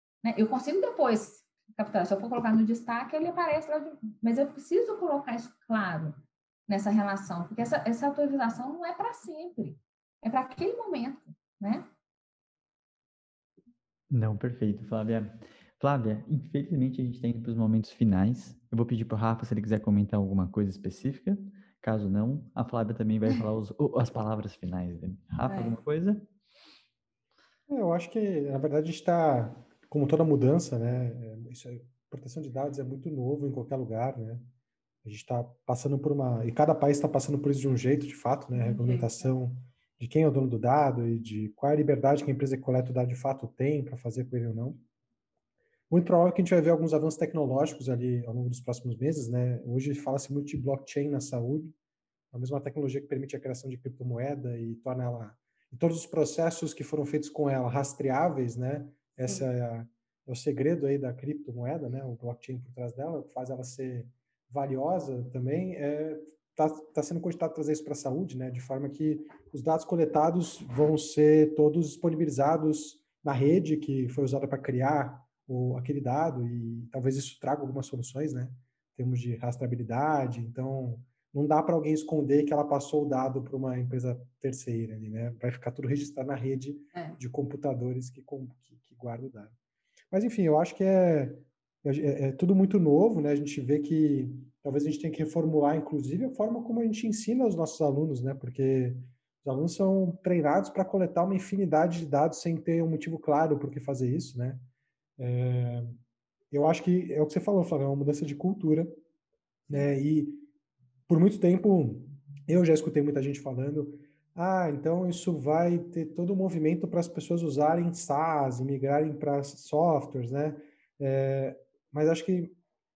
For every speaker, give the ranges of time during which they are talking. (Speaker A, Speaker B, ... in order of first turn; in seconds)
Speaker A: 0.2-6.2, 6.7-11.9, 25.5-25.8, 38.5-39.3
Speaker B: 14.1-26.2
Speaker C: 27.7-34.5, 35.0-44.8, 45.9-51.7, 52.3-89.5, 90.1-104.7, 105.2-106.0, 106.5-109.0, 109.7-110.5, 111.1-122.6